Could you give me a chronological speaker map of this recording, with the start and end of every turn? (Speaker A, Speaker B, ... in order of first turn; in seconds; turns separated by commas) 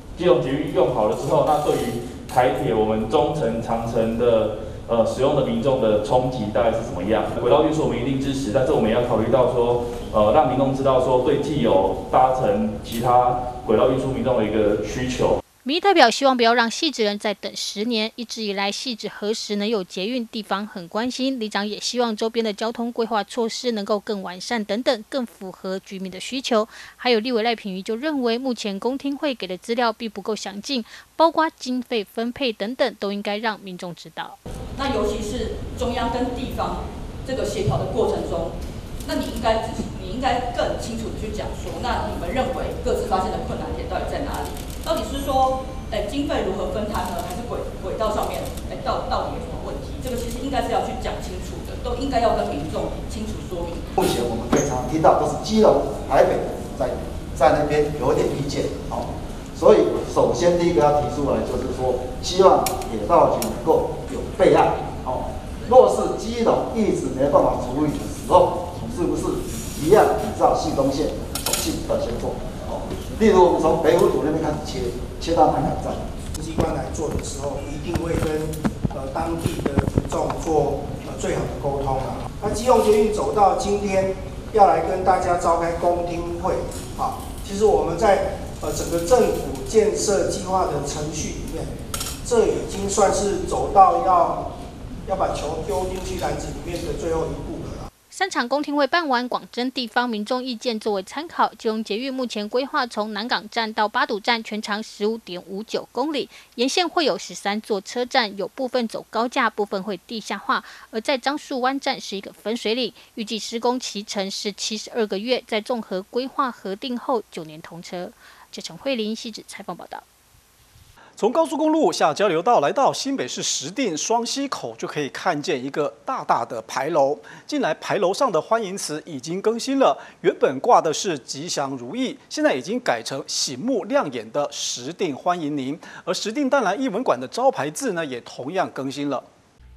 Speaker A: 0.2-15.4, Speaker B: 15.7-34.4, Speaker C: 34.8-53.9, Speaker D: 54.0-76.2, Speaker E: 76.3-94.5, Speaker E: 95.1-97.9, Speaker B: 98.1-120.0, Speaker F: 121.2-139.3